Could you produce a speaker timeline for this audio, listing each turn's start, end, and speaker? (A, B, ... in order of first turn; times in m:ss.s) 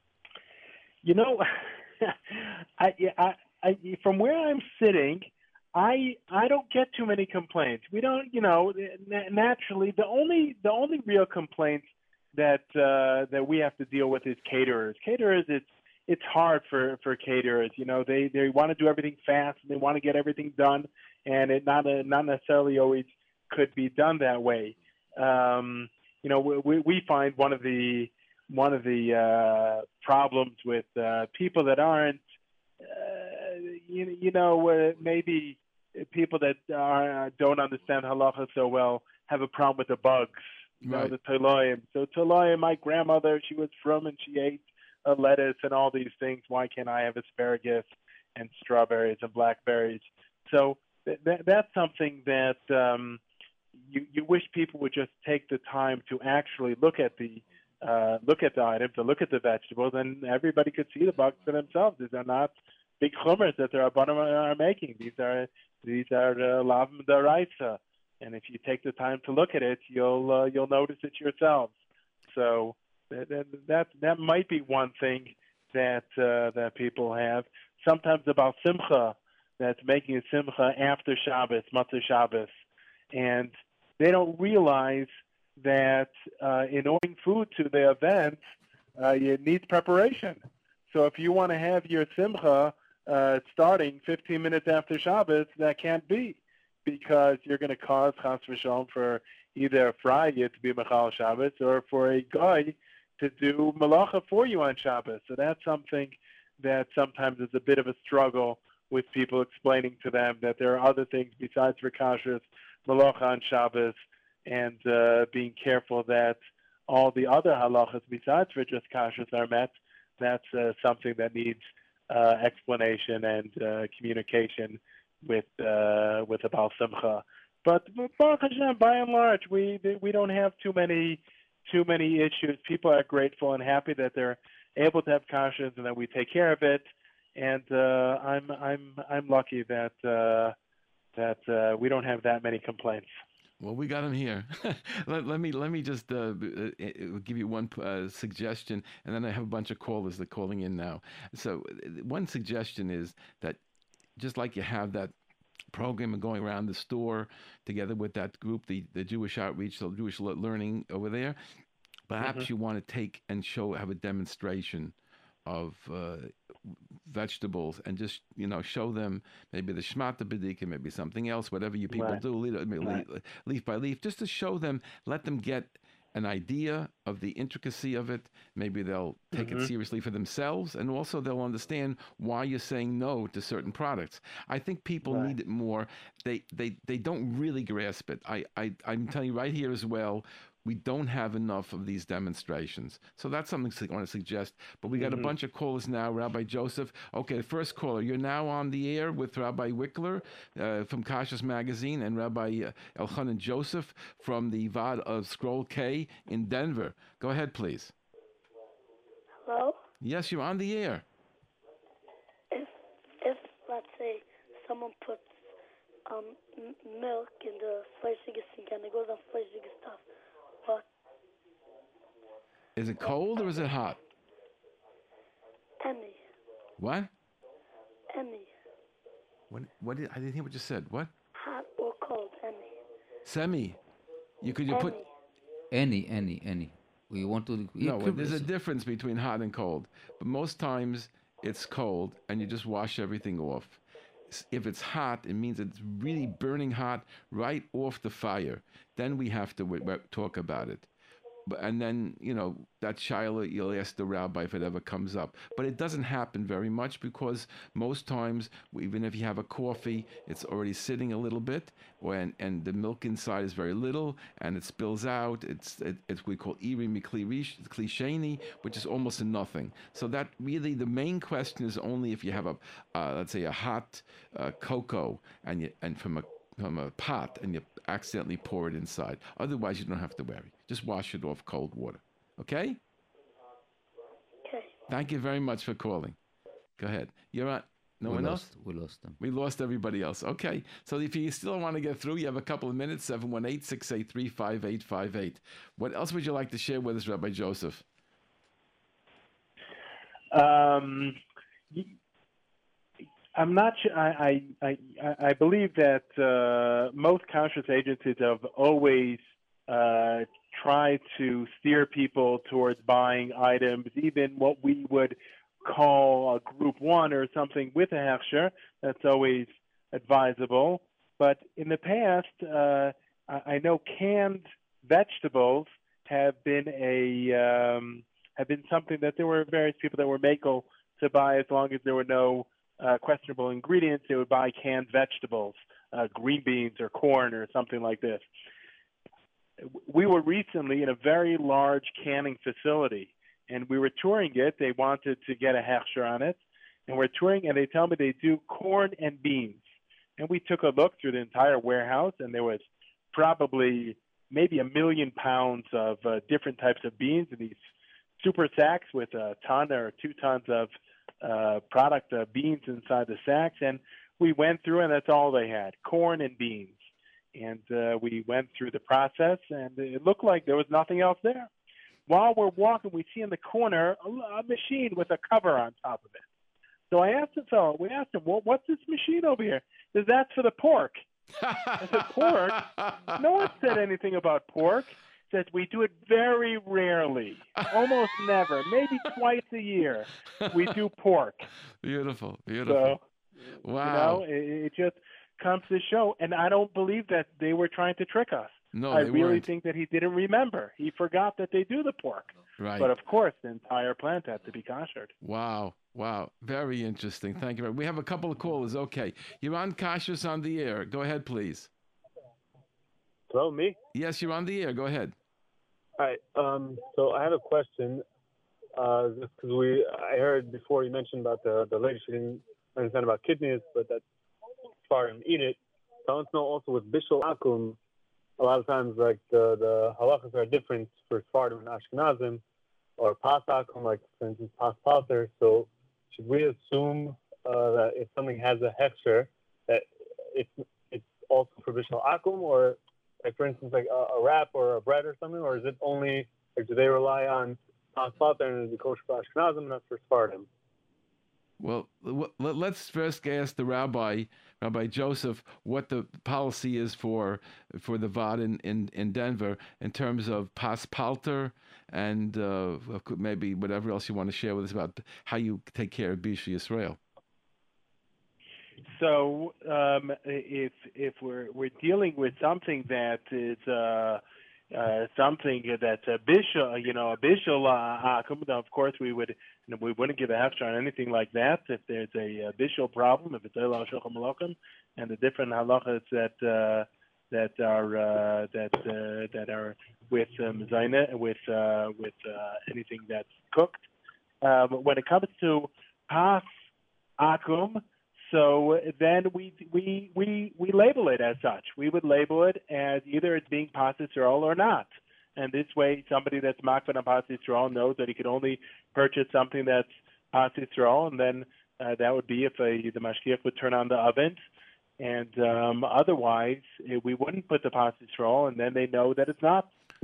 0:01.0-0:32.2 A
0:32.8-0:53.2 A
0:40.8-0:41.1 B
0:53.8-1:11.8 A
1:12.3-1:22.5 A
1:23.1-1:28.4 A
1:29.0-2:16.8 A
2:17.4-2:20.6 A
2:21.2-2:23.1 A
2:23.6-2:33.6 B
2:34.2-2:35.1 B
2:35.7-2:41.4 B
2:42.1-2:44.9 B
2:42.2-2:42.5 A
2:45.4-3:27.9 B
2:51.9-2:52.2 A
2:59.3-2:59.7 A
3:05.0-3:05.3 A
3:14.9-3:15.3 A
3:29.4-3:29.8 C
3:30.0-3:31.0 B
3:32.5-3:35.3 C
3:36.0-3:40.0 C
3:42.8-3:44.0 B
3:45.8-3:46.2 C
3:46.8-3:47.1 B
3:48.1-3:48.5 C
3:49.5-3:51.1 B
3:51.4-3:52.7 C
3:53.2-3:53.8 B
3:54.4-3:55.0 B
3:54.7-3:55.1 C
3:55.7-3:58.5 D
3:57.8-4:10.9 B
4:11.4-4:42.8 B
4:44.4-4:44.8 C
4:44.9-4:46.2 B
4:46.8-4:48.5 B
4:48.0-4:49.2 D
4:49.2-4:57.8 B
5:00.3-5:01.2 A
5:03.3-5:38.2 A
5:39.6-5:49.6 A
5:50.2-5:57.6 A
5:58.2-6:00.7 A
6:01.2-6:06.8 A
6:07.3-6:11.5 A
6:12.1-6:16.2 A
6:16.9-6:21.0 A
6:21.4-6:23.5 B
6:21.8-6:22.6 A
6:23.2-6:31.5 A
6:30.4-6:30.7 B
6:31.8-6:33.0 B
6:32.6-6:33.0 A
6:33.6-6:34.2 B
6:33.8-6:45.1 A
6:38.7-6:39.5 B
6:42.6-6:42.9 B
6:45.2-6:51.7 B
6:53.3-6:53.8 E
6:53.9-6:55.1 B
6:56.0-6:58.0 E
6:58.8-7:04.0 E
7:04.9-7:07.8 E
7:08.4-7:12.4 E
7:13.0-7:30.5 E
7:31.6-7:47.0 B
7:48.9-8:13.8 A
8:14.4-8:16.5 A
8:17.2-8:34.4 A
8:35.0-8:39.7 A